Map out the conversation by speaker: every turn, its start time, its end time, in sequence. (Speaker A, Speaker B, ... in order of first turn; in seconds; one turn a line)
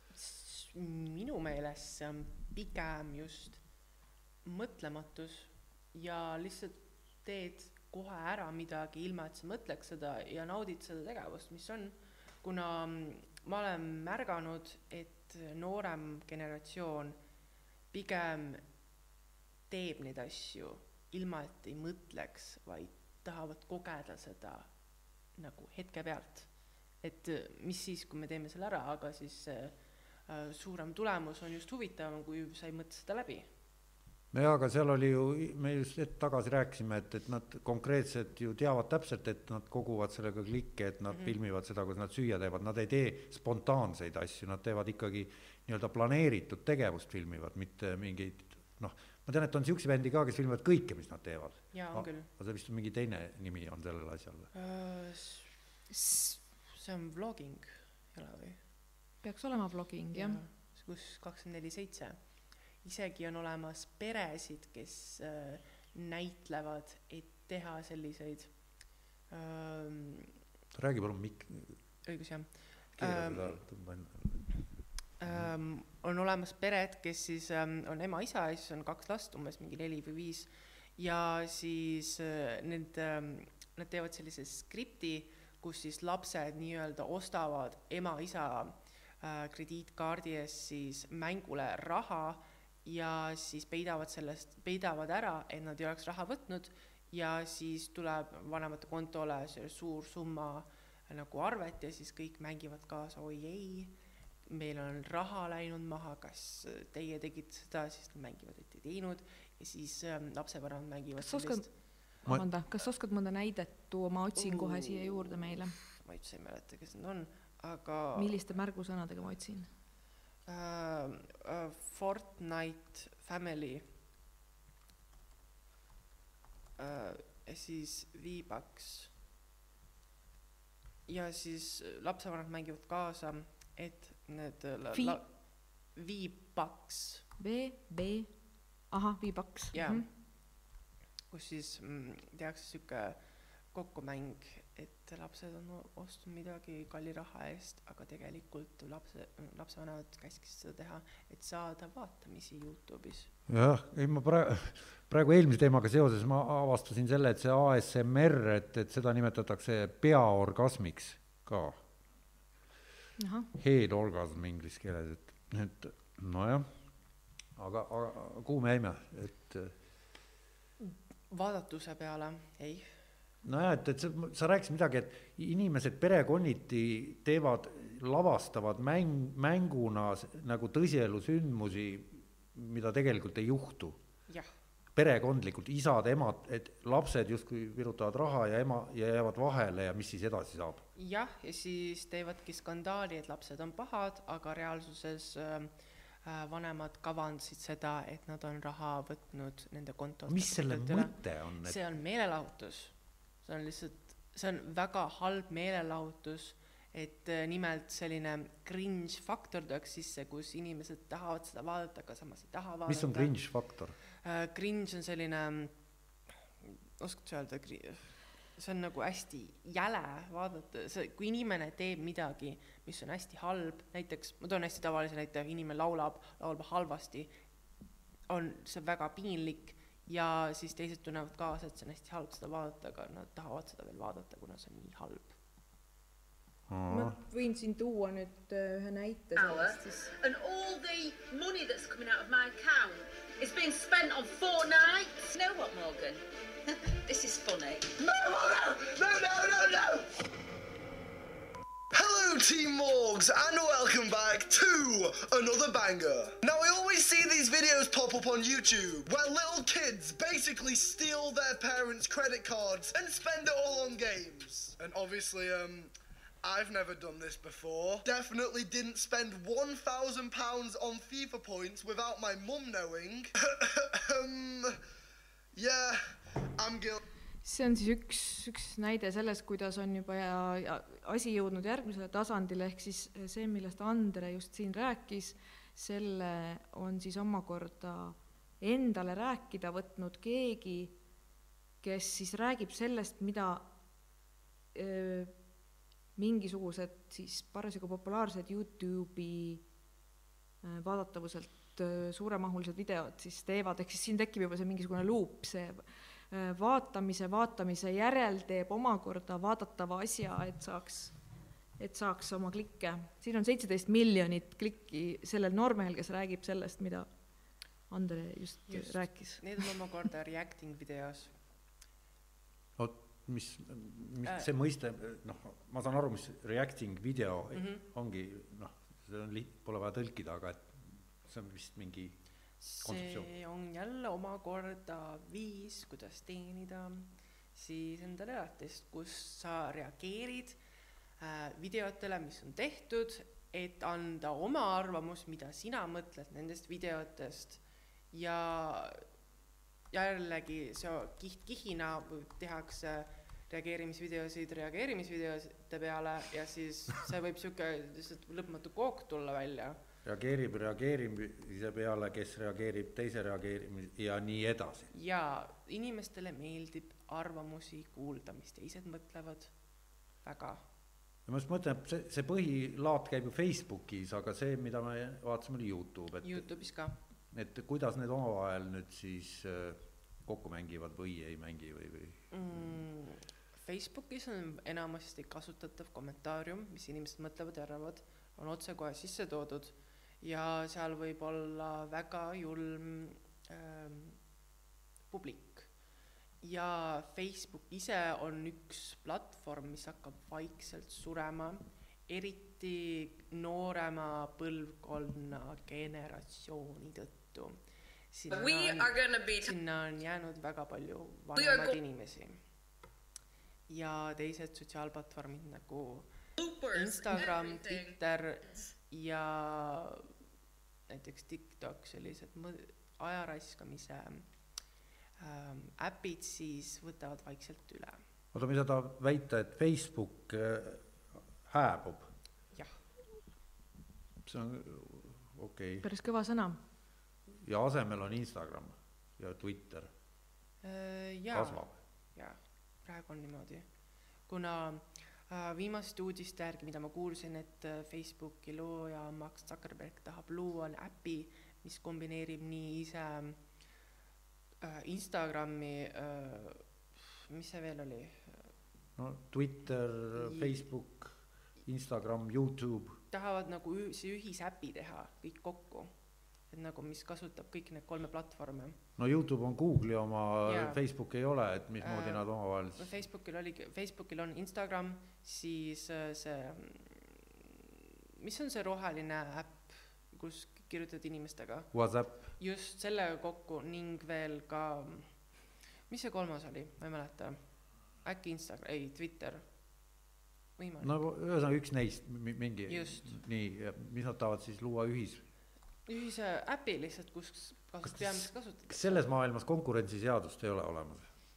Speaker A: 0.1-3.6
Speaker A: 4.4-17.2
Speaker A: 17.9-18.6
Speaker A: 19.7-24.7
Speaker A: 25.4-33.5
Speaker B: 34.3-54.5
Speaker A: 41.1-41.3
Speaker A: 51.7-52.3
Speaker A: 54.5-55.5
Speaker C: 55.9-56.4
Speaker A: 56.7-58.6
Speaker C: 59.2-60.4
Speaker A: 60.1-62.2
Speaker A: 62.8-70.3
Speaker B: 70.7-71.8
Speaker A: 72.0-73.6
Speaker B: 73.0-74.5
Speaker A: 75.2-103.9
Speaker B: 75.2-75.5
Speaker A: 104.5-111.7
Speaker C: 111.2-115.7
Speaker A: 114.4-115.0
Speaker A: 116.0-118.3
Speaker C: 118.2-119.7
Speaker A: 120.5-123.8
Speaker A: 126.8-129.1
Speaker A: 131.1-135.3
Speaker C: 134.9-135.2
Speaker A: 135.9-137.2
Speaker C: 137.4-138.3
Speaker C: 138.9-140.1
Speaker A: 139.7-140.1
Speaker A: 141.3-143.2
Speaker A: 143.7-153.3
Speaker B: 153.5-161.8
Speaker C: 163.2-163.5
Speaker B: 163.6-166.7
Speaker B: 167.6-169.7
Speaker A: 170.8-172.8
Speaker B: 173.4-184.0
Speaker B: 184.9-190.8
Speaker A: 190.9-195.7
Speaker A: 196.2-213.3
Speaker B: 200.3-201.8
Speaker B: 212.9-213.9
Speaker A: 214.2-215.7
Speaker A: 216.6-227.3
Speaker A: 228.3-235.3
Speaker B: 236.7-237.2
Speaker C: 236.9-240.1
Speaker D: 239.3-246.2
Speaker D: 246.8-247.9
Speaker E: 248.0-250.0
Speaker E: 251.9-265.9
Speaker E: 266.4-274.8
Speaker E: 275.6-277.0
Speaker C: 277.4-290.9
Speaker C: 291.8-293.7
Speaker C: 294.7-295.3
Speaker C: 296.1-299.6
Speaker C: 300.6-311.1
Speaker C: 311.8-317.1
Speaker C: 317.9-319.4
Speaker A: 318.7-321.3
Speaker B: 322.8-332.2
Speaker A: 327.5-327.8
Speaker A: 332.6-340.6
Speaker B: 332.8-333.3
Speaker A: 341.2-347.6
Speaker A: 348.1-349.0
Speaker A: 349.9-359.8
Speaker B: 360.0-364.9
Speaker A: 364.9-369.5
Speaker A: 370.2-370.6
Speaker B: 371.3-376.5
Speaker A: 376.2-376.9
Speaker B: 377.3-382.6
Speaker A: 382.3-394.2
Speaker A: 395.1-395.7
Speaker A: 396.4-407.6
Speaker A: 408.1-412.4
Speaker D: 408.3-409.5
Speaker D: 411.3-411.8
Speaker A: 413.7-416.1
Speaker D: 416.4-417.9
Speaker A: 416.6-420.1
Speaker A: 420.9-424.2
Speaker A: 425.2-428.0
Speaker B: 428.3-432.1
Speaker B: 434.2-435.8
Speaker C: 435.8-436.6
Speaker B: 437.3-439.9
Speaker A: 440.6-443.6
Speaker B: 441.3-441.7
Speaker A: 444.3-453.4
Speaker A: 454.6-458.4
Speaker B: 459.0-463.0
Speaker A: 460.1-460.6
Speaker A: 463.1-465.9
Speaker A: 466.5-468.8
Speaker B: 469.0-473.0
Speaker A: 470.4-470.8
Speaker A: 471.8-477.6
Speaker A: 478.2-481.7
Speaker B: 481.7-482.3
Speaker A: 482.4-485.1
Speaker A: 485.9-487.4
Speaker A: 488.0-489.4
Speaker A: 490.6-491.0
Speaker B: 490.8-495.2
Speaker A: 492.7-493.1
Speaker A: 495.9-499.0
Speaker B: 497.8-501.1